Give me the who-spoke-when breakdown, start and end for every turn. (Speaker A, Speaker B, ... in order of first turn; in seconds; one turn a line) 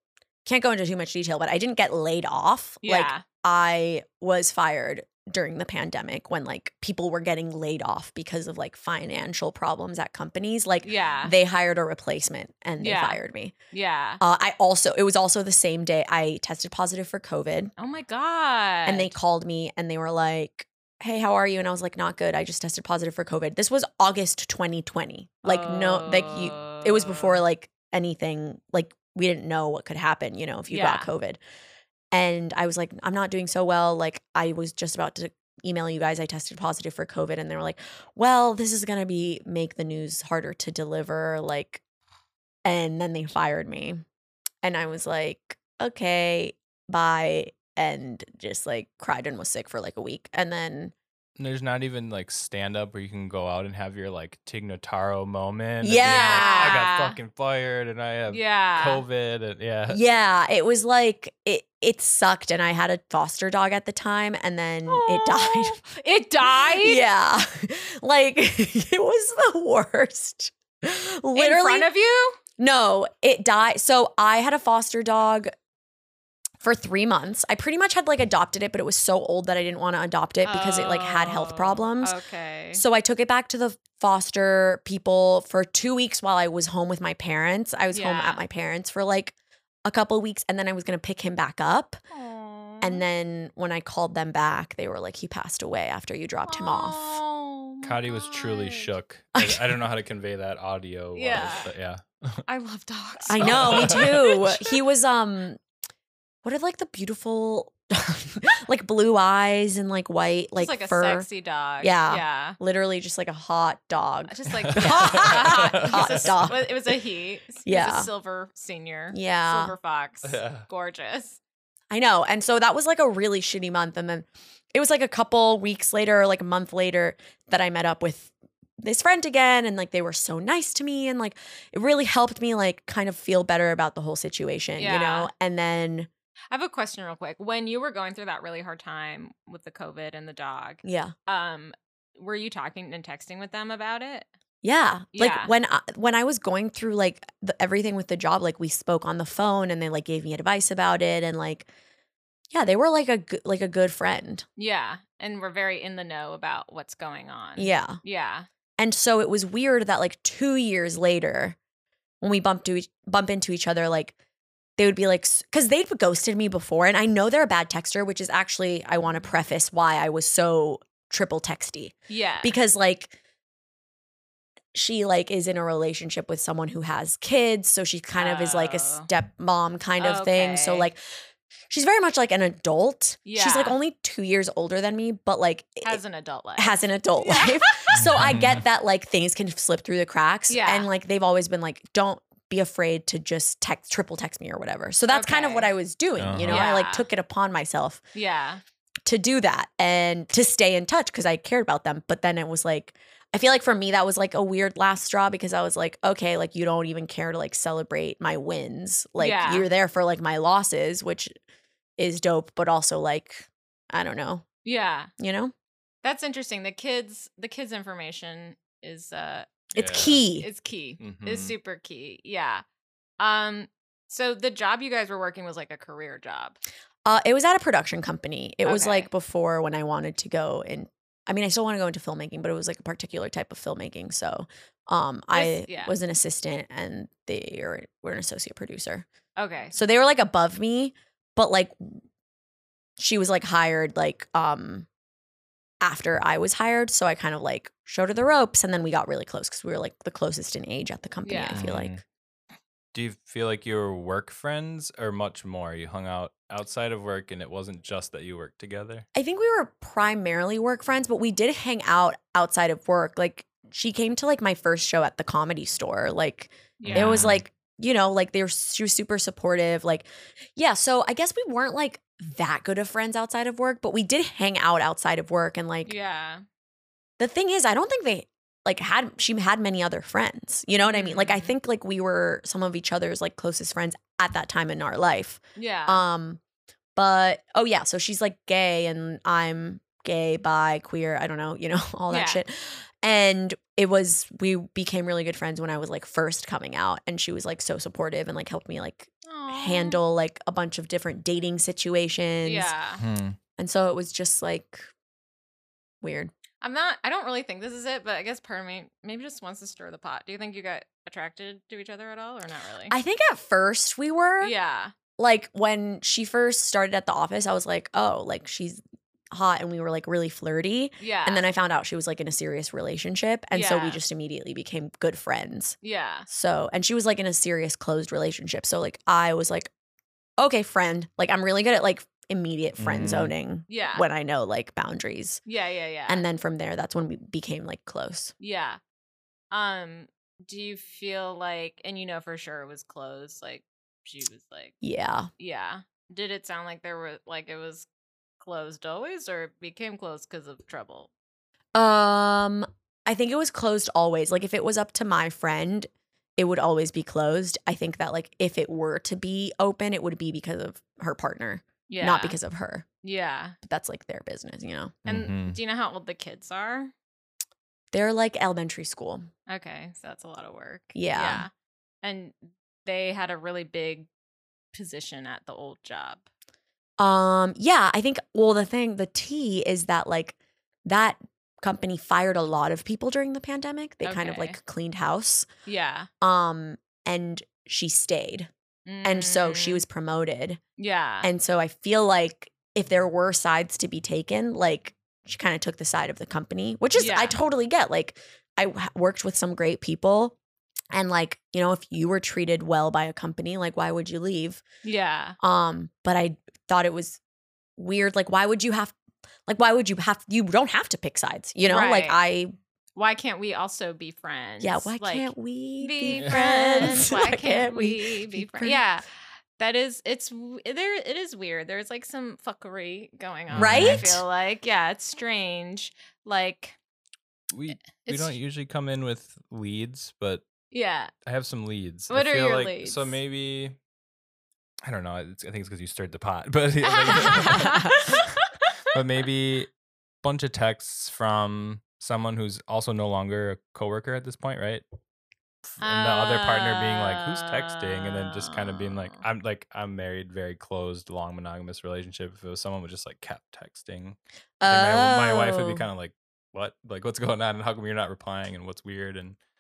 Speaker A: 0.5-13.5
Speaker B: 2.8-3.2
Speaker B: 10.8-11.3
Speaker B: 12.8-14.2
Speaker A: 14.2-17.7
Speaker B: 17.8-19.1
Speaker A: 18.9-31.4
Speaker B: 25.4-27.4
Speaker B: 30.7-31.1
Speaker A: 32.1-41.8
Speaker A: 42.6-44.0
Speaker A: 44.6-50.9
Speaker C: 51.4-60.0
Speaker A: 55.8-56.8
Speaker B: 56.0-57.2
Speaker B: 58.3-59.0
Speaker A: 59.9-65.8
Speaker B: 64.9-67.0
Speaker A: 66.6-71.9
Speaker B: 71.3-72.4
Speaker A: 72.6-75.5
Speaker A: 76.6-82.2
Speaker B: 80.4-82.8
Speaker A: 82.7-92.0
Speaker B: 87.9-88.4
Speaker B: 92.1-93.0
Speaker A: 92.8-97.2
Speaker B: 96.5-98.9
Speaker C: 97.8-102.4
Speaker A: 99.3-99.8
Speaker B: 101.1-101.7
Speaker B: 102.5-104.7
Speaker A: 103.3-105.6
Speaker C: 103.4-104.4
Speaker A: 106.4-111.3
Speaker B: 110.6-112.6
Speaker A: 111.8-116.7
Speaker B: 114.3-121.4
Speaker C: 114.7-116.3
Speaker A: 117.7-118.1
Speaker A: 119.1-119.7
Speaker C: 120.2-120.7
Speaker A: 121.9-136.1
Speaker B: 134.8-135.3
Speaker B: 136.5-144.3
Speaker A: 140.8-141.1
Speaker A: 144.6-151.7
Speaker B: 145.1-145.5
Speaker A: 152.5-154.4
Speaker B: 154.6-158.5
Speaker A: 157.6-158.0
Speaker A: 158.8-161.6
Speaker A: 162.2-164.2
Speaker A: 164.8-173.1
Speaker B: 172.1-172.6
Speaker A: 174.7-181.0
Speaker B: 178.2-179.1
Speaker B: 180.0-180.9
Speaker A: 181.7-186.0
Speaker B: 183.2-183.8
Speaker B: 185.8-187.9
Speaker A: 186.6-198.0
Speaker C: 187.9-188.6
Speaker B: 190.5-190.9
Speaker B: 195.1-195.7
Speaker C: 196.2-196.6
Speaker B: 196.5-197.1
Speaker B: 198.2-198.6
Speaker A: 199.1-211.3
Speaker B: 209.2-209.7
Speaker A: 212.0-214.5
Speaker B: 214.6-215.1
Speaker A: 215.2-215.5
Speaker B: 216.0-219.5
Speaker C: 219.7-220.2
Speaker A: 219.8-220.5
Speaker B: 220.4-222.6
Speaker C: 221.0-221.5
Speaker B: 223.2-226.6
Speaker A: 227.1-239.1
Speaker B: 228.7-229.1
Speaker B: 235.3-235.9
Speaker B: 239.4-239.8
Speaker A: 239.7-242.0
Speaker A: 243.0-244.9
Speaker A: 245.8-251.9
Speaker B: 251.2-251.6
Speaker C: 251.5-252.0
Speaker C: 252.9-259.1
Speaker A: 259.1-275.9
Speaker B: 266.8-267.3
Speaker C: 266.8-267.4
Speaker B: 275.9-276.4
Speaker A: 277.2-286.4
Speaker B: 280.8-281.5
Speaker B: 285.6-286.0
Speaker A: 287.0-302.7
Speaker B: 292.1-292.4
Speaker B: 299.2-300.0
Speaker B: 302.4-303.0
Speaker C: 303.0-303.4
Speaker A: 303.6-304.9
Speaker A: 306.0-306.3
Speaker B: 306.6-312.9
Speaker A: 312.9-314.5
Speaker B: 314.4-314.9
Speaker A: 315.2-325.8
Speaker B: 321.0-321.4
Speaker B: 323.5-324.0
Speaker B: 325.8-326.3
Speaker A: 326.3-329.7
Speaker A: 330.4-335.4
Speaker C: 332.8-333.3
Speaker B: 333.7-334.1
Speaker B: 335.5-336.2
Speaker A: 336.1-338.3
Speaker B: 338.4-338.8
Speaker B: 339.5-344.8
Speaker A: 344.8-345.3
Speaker B: 345.4-347.9
Speaker B: 348.4-351.1
Speaker A: 351.8-362.9
Speaker B: 361.9-362.4
Speaker B: 363.0-363.6
Speaker A: 363.6-365.0
Speaker C: 365.1-365.6
Speaker B: 365.1-366.9
Speaker A: 367.9-369.3
Speaker B: 369.5-371.5
Speaker A: 370.9-371.5
Speaker B: 372.0-374.1
Speaker B: 374.7-376.2
Speaker A: 377.0-385.5
Speaker B: 384.0-384.6
Speaker B: 385.7-386.1
Speaker A: 386.2-388.5
Speaker B: 388.9-389.8
Speaker A: 389.0-390.6
Speaker B: 390.8-391.3
Speaker A: 391.2-400.4
Speaker B: 396.9-397.4
Speaker A: 400.9-404.6
Speaker B: 404.8-405.4
Speaker A: 405.4-407.2
Speaker A: 407.8-408.9
Speaker A: 409.5-412.5
Speaker B: 411.6-412.2
Speaker B: 413.0-419.0
Speaker A: 414.6-418.8
Speaker B: 419.6-426.8
Speaker C: 423.5-424.1
Speaker A: 423.6-424.2
Speaker C: 427.5-430.4
Speaker B: 427.9-428.4
Speaker B: 430.7-431.1
Speaker C: 431.3-433.8
Speaker B: 432.1-433.2
Speaker C: 434.9-438.3
Speaker B: 436.9-438.7
Speaker C: 438.9-439.7
Speaker C: 440.2-444.8
Speaker C: 445.7-459.4
Speaker B: 445.8-449.2
Speaker A: 454.6-455.9